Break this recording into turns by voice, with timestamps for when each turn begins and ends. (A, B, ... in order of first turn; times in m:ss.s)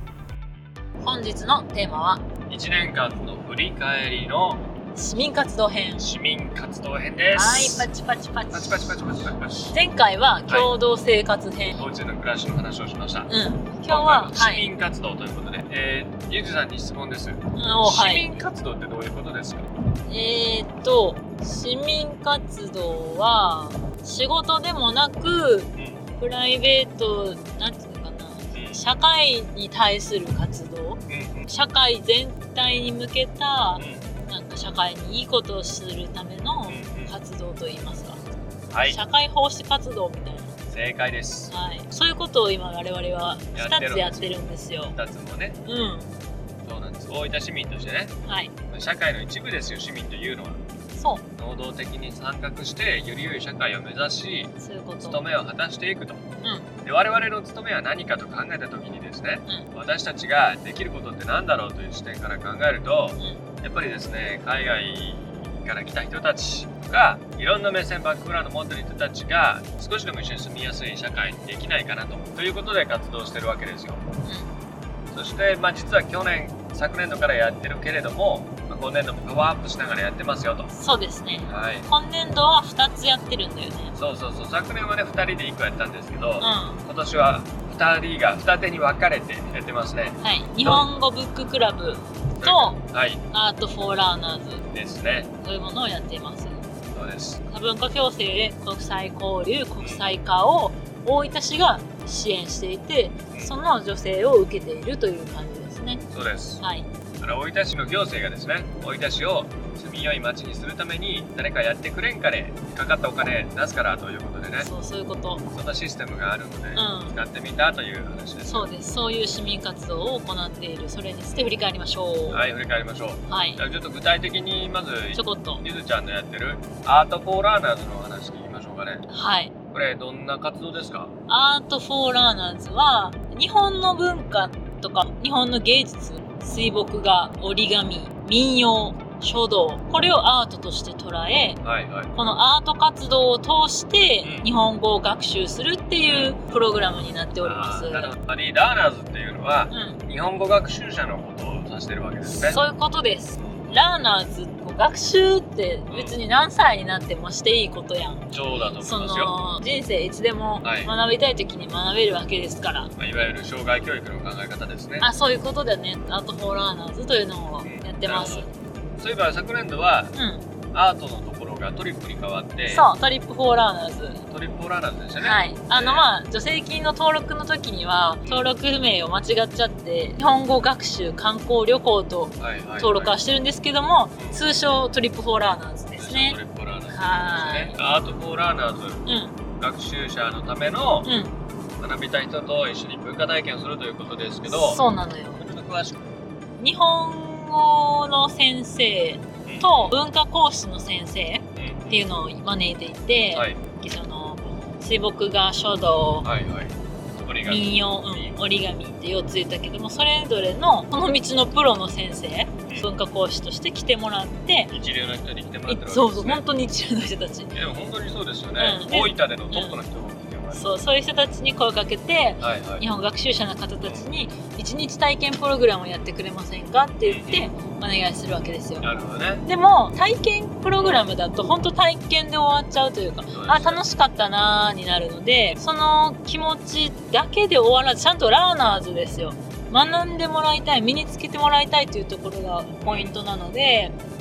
0:01.0-0:02.2 A
0:02.5-0:04.6 B
0:04.9-0:06.1 A
0:06.0-0:07.9 B
0:07.3-0:09.0 A
0:08.5-0:09.7 B
0:09.7-0:11.8 A
0:11.7-0:13.3 B
0:13.3-0:14.7 A
0:13.9-0:19.7 B
0:17.5-0:18.3 A
0:20.1-0:38.2 A
0:25.8-0:26.0 B
0:28.5-0:28.8 B
0:31.1-0:31.5 B
0:33.8-0:34.1 B
0:36.7-0:37.1 B
0:38.7-0:39.0 B
0:38.8-0:40.6 A
0:40.7-0:41.5 B
0:41.5-0:45.0 A
0:43.5-0:45.6 B
0:45.6-0:46.1 A
0:46.6-0:48.1 B
0:48.2-0:48.5 A
0:48.7-0:50.6 B
0:50.9-0:51.2 A
0:51.4-0:56.2 B
0:54.6-0:55.2 A
0:56.4-0:56.7 A
0:56.8-1:14.0 B
1:03.2-1:03.4 A
1:15.1-1:20.7 B
1:20.7-1:23.9 A
1:21.5-1:21.9 B
1:23.9-1:30.9 B
1:26.4-1:26.8 A
1:30.2-1:34.7 A
1:32.4-1:33.2 B
1:34.7-1:35.3 B
1:35.4-1:36.6 A
1:36.9-1:37.4 B
1:37.5-1:46.0 A
1:46.1-1:46.6 B
1:46.6-1:46.9 A
1:47.2-1:54.7 B
1:54.6-1:55.4 A
1:55.5-1:58.7 B
1:56.7-1:57.1 A
1:58.4-2:02.4 A
2:02.3-2:09.0 B
2:03.3-2:03.6 A
2:05.1-2:05.6 A
2:09.1-2:09.5 A
2:09.7-2:11.1 B
2:11.3-2:21.6 A
2:21.6-2:22.4 B
2:22.1-2:28.1 A
2:24.2-2:24.5 B
2:26.0-2:26.4 B
2:27.4-2:32.6 B
2:29.7-2:30.0 A
2:32.3-2:42.9 A
2:33.4-2:33.8 B
2:35.9-2:36.2 B
2:38.3-2:39.3 B
2:40.6-2:40.9 B
2:43.0-2:45.1 B
2:45.0-2:48.5 A
2:47.6-2:48.4 B
2:49.0-2:50.1 B
2:50.1-2:50.4 A
2:50.7-2:52.9 B
2:52.7-2:54.2 A
2:54.3-2:56.1 B
2:55.2-3:06.4 A
2:58.2-2:58.5 B
3:02.4-3:03.1 B
3:06.0-3:09.1 B
3:06.9-3:07.8 A
3:09.0-3:09.4 A
3:09.6-3:11.1 B
3:11.0-3:11.3 A
3:11.8-3:14.8 B
3:14.5-3:15.4 A
3:15.4-3:16.0 B
3:16.6-3:26.3 A
3:19.4-3:20.0 B
3:21.6-3:22.1 B
3:26.2-3:28.4 B
3:27.4-3:34.7 A
3:34.7-3:36.4 B
3:35.7-3:37.9 A
3:37.5-3:40.7 B
3:38.5-3:39.8 A
3:40.5-3:48.9 A
3:42.4-3:42.8 B
3:43.8-3:44.1 B
3:47.0-3:47.5 B
3:48.8-3:49.4 B
3:49.4-4:03.9 A
3:53.3-3:53.8 B
3:59.7-4:00.1 B
4:02.8-4:03.2 B